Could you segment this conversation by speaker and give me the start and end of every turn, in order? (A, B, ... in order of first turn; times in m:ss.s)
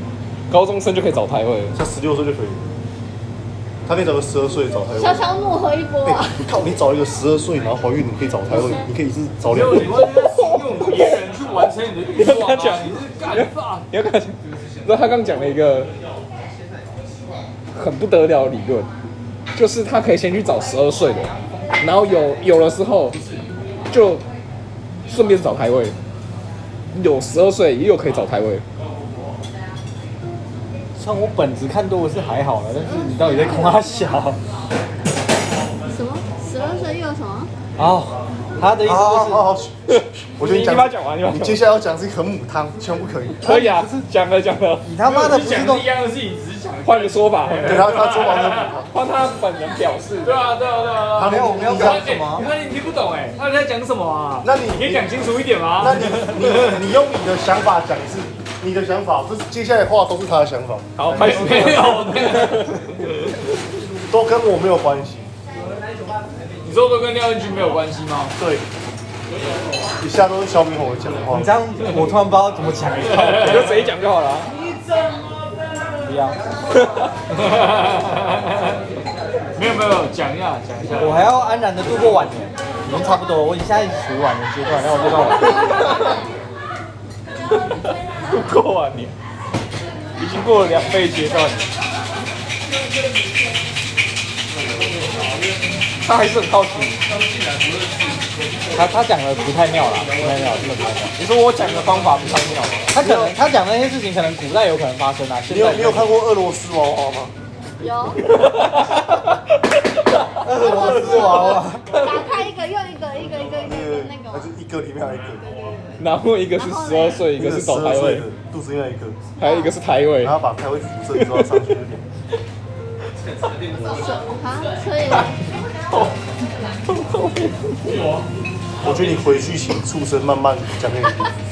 0:00.5-0:01.8 A
0:01.7-0:02.7 B
0:03.9-0:05.3 B
0:04.9-0:06.5 C
0:06.0-0:10.1 B
0:09.5-0:13.9 D
0:10.5-0:11.2 A
0:12.2-0:15.9 A
0:17.7-0:18.9 A
0:19.6-0:23.2 A
0:23.9-0:24.2 A
0:25.1-0:26.0 A
0:26.9-0:28.6 A
0:31.0-0:34.4 E
0:33.0-0:33.7 C
0:35.9-0:37.5 C
0:37.8-0:39.5 E
0:38.8-0:43.5 B
0:39.9-0:41.6 A
0:43.4-0:44.0 E
0:43.4-0:44.9 A
0:44.8-0:45.9 E
0:45.0-0:48.7 D
0:46.8-0:47.9 A
0:47.6-0:48.9 B
0:48.9-0:50.4 A
0:50.2-0:56.8 D
0:51.2-0:52.1 B
0:51.2-0:52.5 E
0:54.4-0:55.0 B
0:55.8-1:00.9 B
1:01.0-1:02.8 A
1:01.1-1:03.2 D
1:04.1-1:05.3 B
1:06.6-1:08.4 D
1:08.4-1:08.6 B
1:10.0-1:11.5 B
1:11.3-1:13.7 E
1:13.3-1:14.5 A
1:16.0-1:16.4 E
1:16.7-1:17.1 A
1:17.4-1:18.8 D
1:19.6-1:21.3 D
1:20.9-1:25.9 E
1:25.3-1:26.2 A
1:27.9-1:29.1 A
1:30.2-1:31.7 A
1:36.0-1:37.0 A
1:38.7-1:41.2 E
1:41.2-1:43.0 A
1:42.9-1:46.1 E
1:43.0-1:43.4 B
1:45.5-1:47.3 B
1:47.8-1:48.3 C
1:48.3-1:49.6 A
1:50.4-1:51.8 E
1:50.6-1:54.5 C
1:50.7-1:52.2 A
1:53.6-1:55.5 B
1:55.4-1:56.0 C
1:56.0-1:58.3 A
1:56.6-1:57.3 C
1:57.3-1:59.2 B
1:59.4-1:59.7 C
1:59.4-2:00.4 A
2:00.2-2:02.0 B
2:01.1-2:01.6 A
2:03.8-2:05.6 C
2:06.9-2:08.0 A
2:08.8-2:11.3 B